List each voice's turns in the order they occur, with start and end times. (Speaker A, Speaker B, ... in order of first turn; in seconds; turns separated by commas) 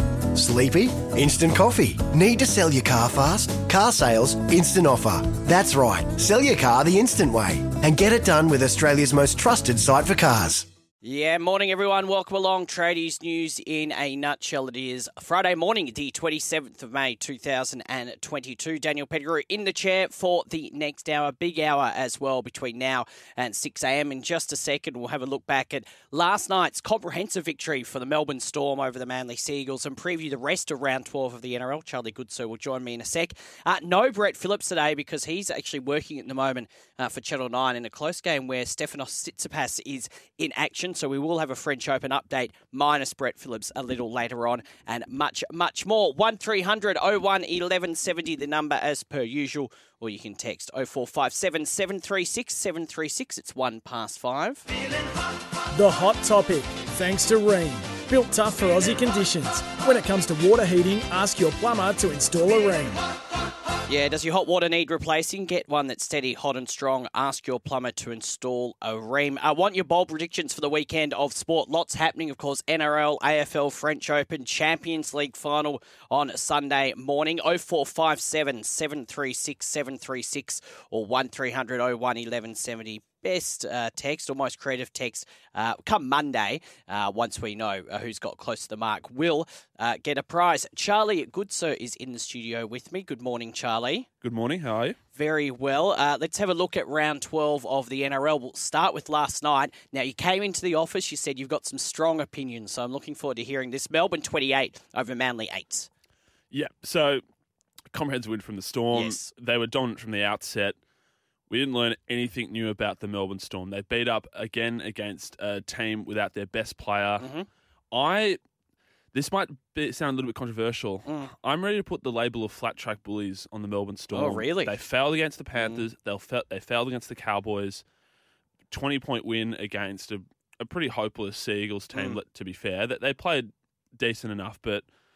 Speaker A: 0.3-10.7, Speaker B: 11.0-54.6, Speaker C: 55.8-63.0, Speaker B: 63.9-94.1, Speaker D: 94.2-95.0, Speaker B: 95.2-105.9, Speaker D: 106.5-107.2, Speaker D: 107.9-110.8, Speaker B: 108.9-109.2, Speaker D: 111.5-117.3, Speaker B: 117.2-117.5, Speaker D: 117.9-118.4, Speaker D: 119.1-127.8, Speaker B: 124.1-124.8, Speaker B: 125.6-125.8, Speaker D: 128.7-134.8